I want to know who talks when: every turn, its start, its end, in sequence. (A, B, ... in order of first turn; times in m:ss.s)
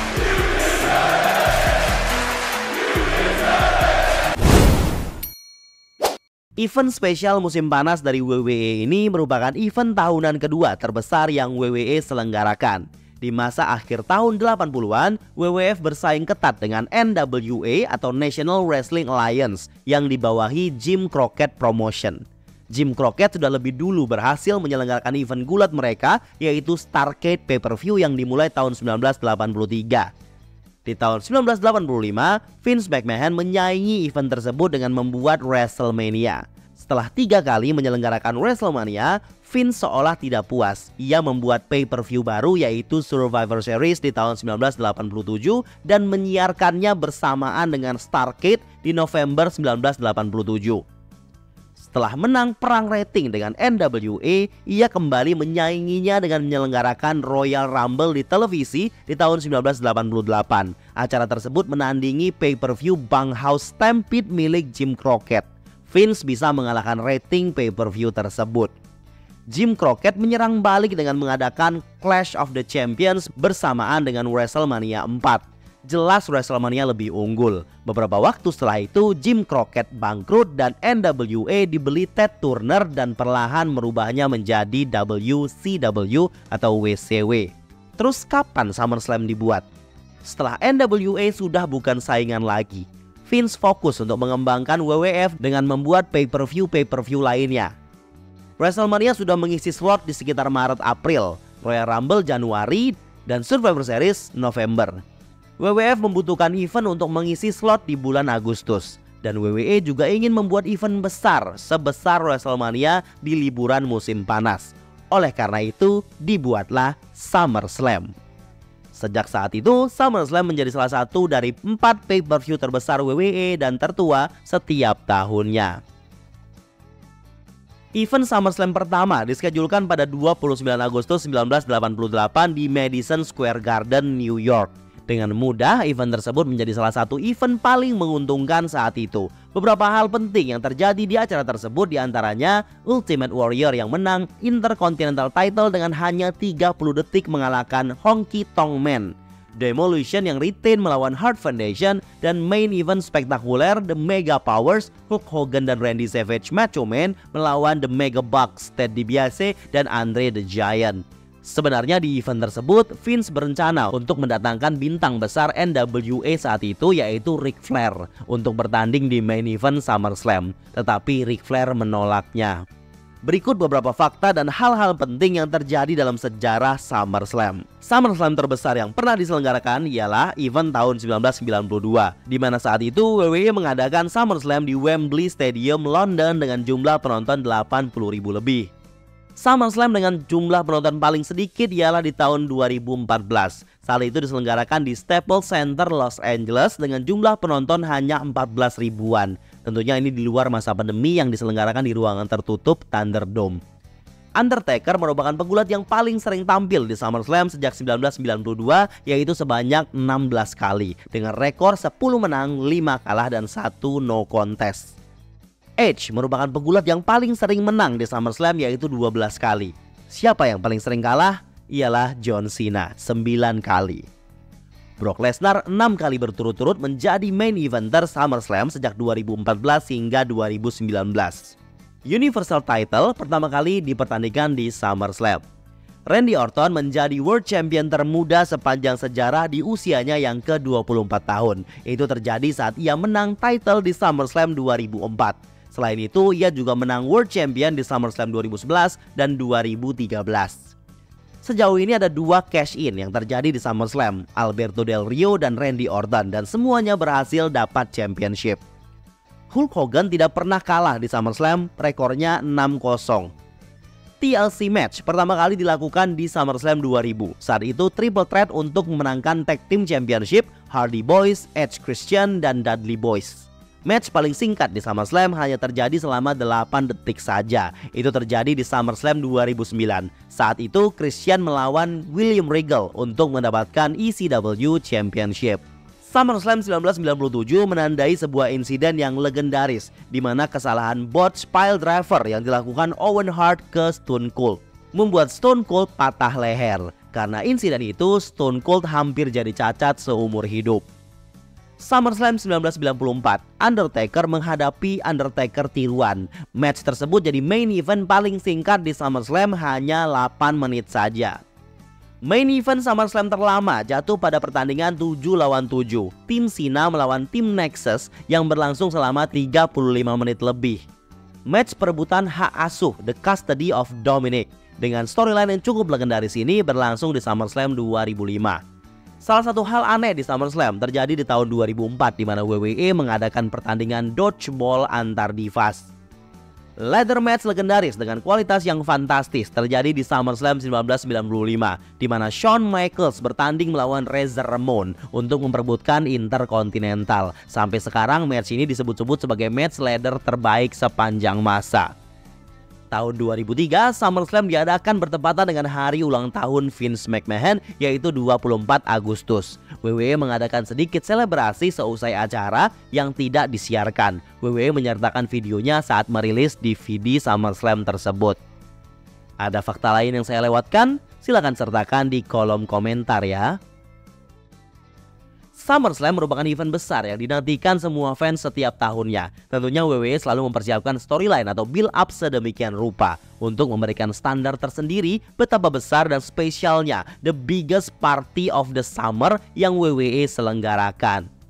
0:06.6-0:30.1 A
0:30.8-0:50.8 A
0:51.8-1:08.7 A
1:09.5-1:29.6 A
1:30.2-1:37.7 A
1:38.6-1:45.0 A
1:45.6-1:58.1 A
1:58.9-2:05.8 A
2:08.0-2:52.6 A
2:53.2-3:08.7 A
3:09.4-3:23.6 A
3:24.4-3:35.0 A
3:35.8-3:44.0 A
3:45.0-3:51.6 A
3:52.1-3:55.4 A
3:56.1-4:10.7 A
4:11.4-4:18.6 A
4:19.5-4:23.3 A
4:24.2-5:00.8 A
5:01.8-5:11.4 A
5:12.2-5:20.8 A
5:21.5-5:28.6 A
5:29.2-5:35.9 A
5:36.8-5:51.9 A
5:52.9-6:08.4 A
6:09.4-6:13.6 A
6:15.6-6:31.3 A